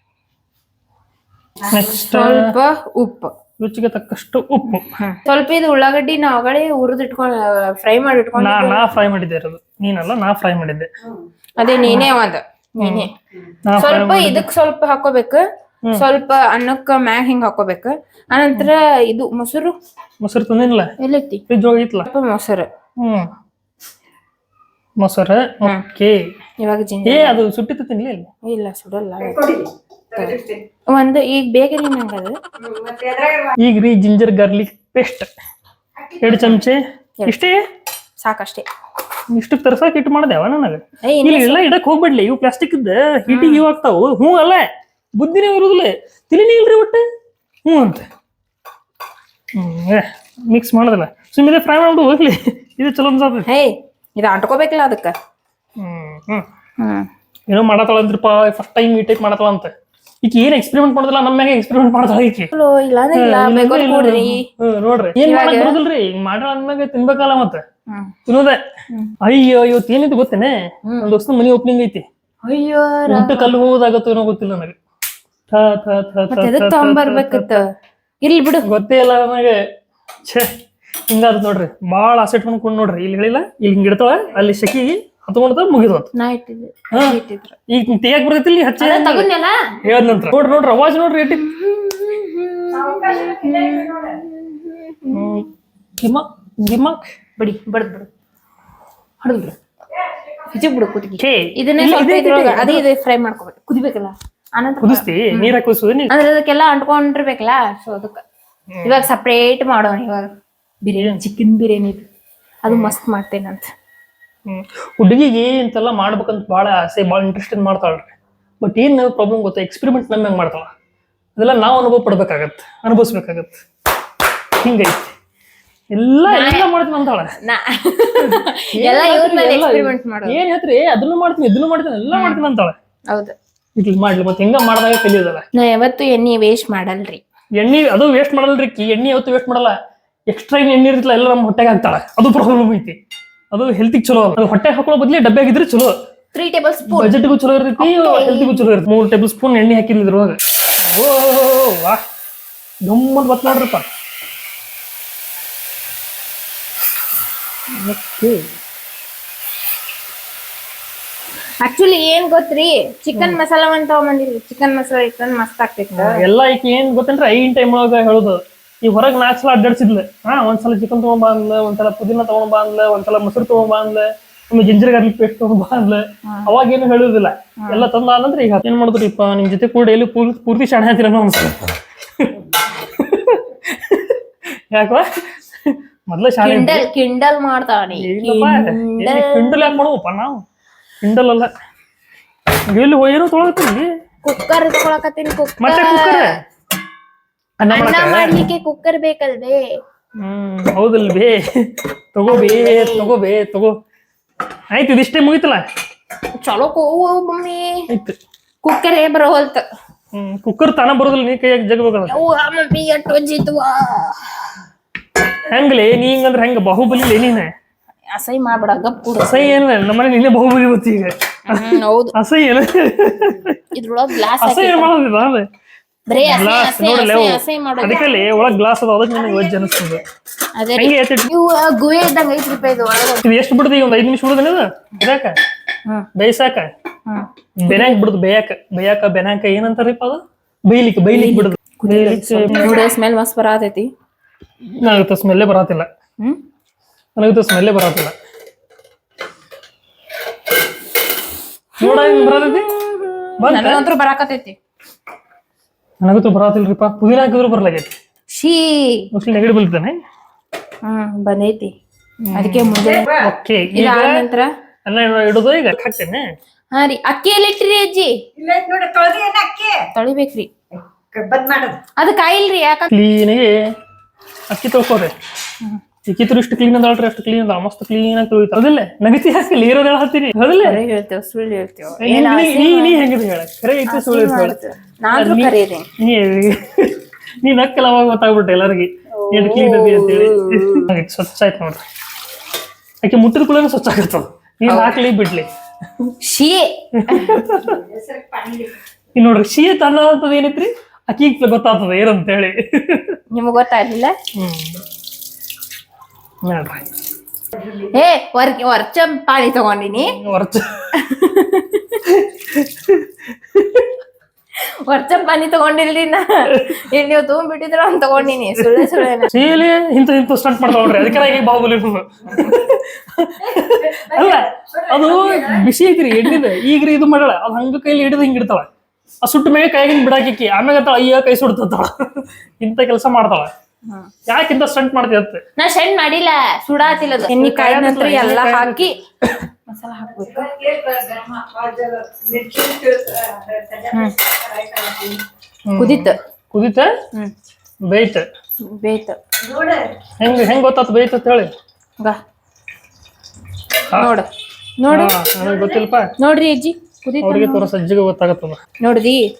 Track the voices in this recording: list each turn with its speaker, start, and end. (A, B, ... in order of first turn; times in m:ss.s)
0:01.7-0:02.5 A
0:01.7-0:03.3 B
0:03.6-0:04.9 A
0:04.7-0:08.9 B
0:08.4-0:10.9 A
0:11.6-0:13.1 B
0:12.8-0:13.1 A
0:13.7-0:14.4 A
0:13.8-0:15.4 B
0:15.9-0:19.7 B
0:20.2-0:20.9 A
0:21.0-0:21.4 B
0:21.5-0:22.1 A
0:22.0-0:22.7 B
0:23.0-0:23.3 A
0:25.0-0:26.2 A
0:26.6-0:27.4 B
0:27.0-0:28.3 A
0:28.4-0:29.4 B
0:29.2-0:30.6 C
0:30.9-0:32.4 B
0:32.6-0:33.5 C
0:33.6-0:35.3 A
0:36.0-0:36.6 C
0:36.2-0:37.6 A
0:38.2-0:38.6 B
0:39.3-0:47.0 A
0:41.0-0:41.6 B
0:43.3-0:43.6 B
0:47.6-0:48.1 A
0:49.5-0:53.5 A
0:53.4-0:55.1 B
0:55.8-0:56.5 A
0:56.8-0:57.1 B
0:57.5-0:59.7 A
1:00.2-1:02.5 A
1:02.5-1:04.4 B
1:03.1-1:07.6 A
1:05.2-1:05.8 B
1:07.9-1:08.1 B
1:08.3-1:08.6 A
1:09.2-1:12.0 A
1:10.8-1:11.1 B
1:12.4-1:13.5 B
1:13.1-1:14.8 A
1:15.5-1:17.6 A
1:16.3-1:17.6 B
1:18.2-1:18.6 B
1:18.6-1:19.6 A
1:20.2-1:20.5 A
1:21.1-1:26.1 A
1:26.2-1:27.6 B
1:26.9-1:27.2 A
1:27.7-1:29.3 A
1:28.8-1:29.6 B
1:29.8-1:31.4 A
1:31.3-1:35.4 B
1:32.7-1:34.2 C
1:35.1-1:35.5 A
1:36.0-1:37.0 A
1:37.4-1:38.1 B
1:39.2-1:39.5 A
1:40.0-1:40.7 C
1:40.5-1:45.5 B
1:41.2-1:42.8 A
1:44.8-1:46.1 A
1:46.1-1:48.2 B
1:48.7-1:49.1 A
1:48.8-1:50.3 B
1:50.8-1:52.1 B
1:52.6-1:53.7 B
1:52.7-1:52.9 A
1:54.5-2:00.7 A
2:01.4-2:03.6 A
2:04.6-2:05.1 A
2:05.9-2:07.3 A
2:06.3-2:06.7 B
2:07.4-2:10.4 B
2:08.3-2:12.8 A
2:12.1-2:12.4 B
2:13.1-2:13.3 B
2:13.8-2:15.5 A
2:15.5-2:17.2 B
2:17.6-2:19.8 A
2:20.3-2:23.0 A
2:23.5-2:25.9 A
2:26.3-2:27.2 B
2:26.9-2:32.0 A
2:27.8-2:28.6 B
2:32.8-2:33.9 A
2:37.7-2:38.4 A
2:41.6-2:46.2 B
2:45.9-3:06.9 A
2:56.2-2:56.5 B
2:57.6-2:57.8 B
3:06.4-3:09.7 B
3:07.9-3:10.4 A
3:11.0-3:11.5 A
3:12.7-3:13.9 A
3:14.2-3:16.3 B
3:15.6-3:16.3 A
3:17.6-3:18.4 A
3:17.7-3:19.6 B
3:20.2-3:23.8 A
3:22.3-3:23.1 B
3:24.7-3:25.6 A
3:26.4-3:27.9 B
3:27.9-3:28.2 A
3:28.6-3:29.6 B
3:30.1-3:32.2 A
3:32.1-3:34.6 B
3:35.4-3:37.5 A
3:38.1-3:39.6 B
3:39.2-3:43.6 A
3:41.5-3:42.1 B
3:43.7-3:44.9 B
3:44.4-3:45.5 A
3:46.1-3:48.3 B
3:46.2-3:50.0 A
3:50.6-3:53.2 B
3:50.8-3:51.3 A
3:53.2-3:55.4 A
3:56.2-3:56.7 A
3:57.1-3:57.9 B
3:57.6-4:02.8 A
4:01.1-4:03.9 B
4:04.6-4:05.9 A
4:07.2-4:08.1 A
4:11.8-4:14.6 B
4:11.8-4:12.7 A
4:13.4-4:13.8 A
4:16.0-4:17.9 A
4:18.3-4:19.1 B
4:19.1-4:20.0 A
4:20.8-4:21.7 B
4:22.2-4:24.2 A
4:22.3-4:23.1 B
4:22.8-4:23.3 C
4:23.7-4:24.5 B
4:24.8-4:26.2 A
4:26.7-4:28.2 B
4:28.4-4:29.8 C
4:29.9-4:30.5 B
4:30.8-4:31.8 C
4:32.0-4:32.9 B
4:32.9-4:33.6 A
4:34.5-4:35.1 A
4:36.0-4:40.8 A
4:40.6-4:43.0 B
4:42.0-4:44.6 A
4:43.9-4:45.9 B
4:45.1-4:51.8 A
4:49.1-4:50.9 B
4:53.0-4:56.1 A
4:54.7-4:55.0 B
4:56.2-4:57.4 B
4:56.9-4:57.8 A
4:57.6-4:58.7 C
4:59.2-5:03.2 A
5:03.3-5:04.1 B
5:04.3-5:04.8 A
5:06.4-5:06.9 A
5:07.9-5:10.1 B
5:10.0-5:10.8 A
5:11.0-5:12.0 B
5:12.1-5:13.9 A
5:14.8-5:19.6 B
5:18.6-5:28.7 A
5:20.9-5:21.2 B
5:23.4-5:25.7 C
5:29.2-5:33.5 A
5:34.3-5:35.4 A
5:35.6-5:38.9 B
5:37.2-5:39.4 A
5:39.7-5:40.5 B
5:40.2-5:45.2 C
5:45.7-5:46.9 A
5:45.8-5:46.2 B
5:47.8-5:48.3 A
5:48.6-5:49.2 B
5:49.4-5:49.9 C
5:50.2-5:51.5 A
5:53.9-5:54.3 B
5:54.8-5:55.1 B
5:54.9-5:56.1 A
5:55.4-5:55.8 C
5:56.2-5:57.7 B
5:57.2-5:58.6 A
5:58.8-5:59.2 B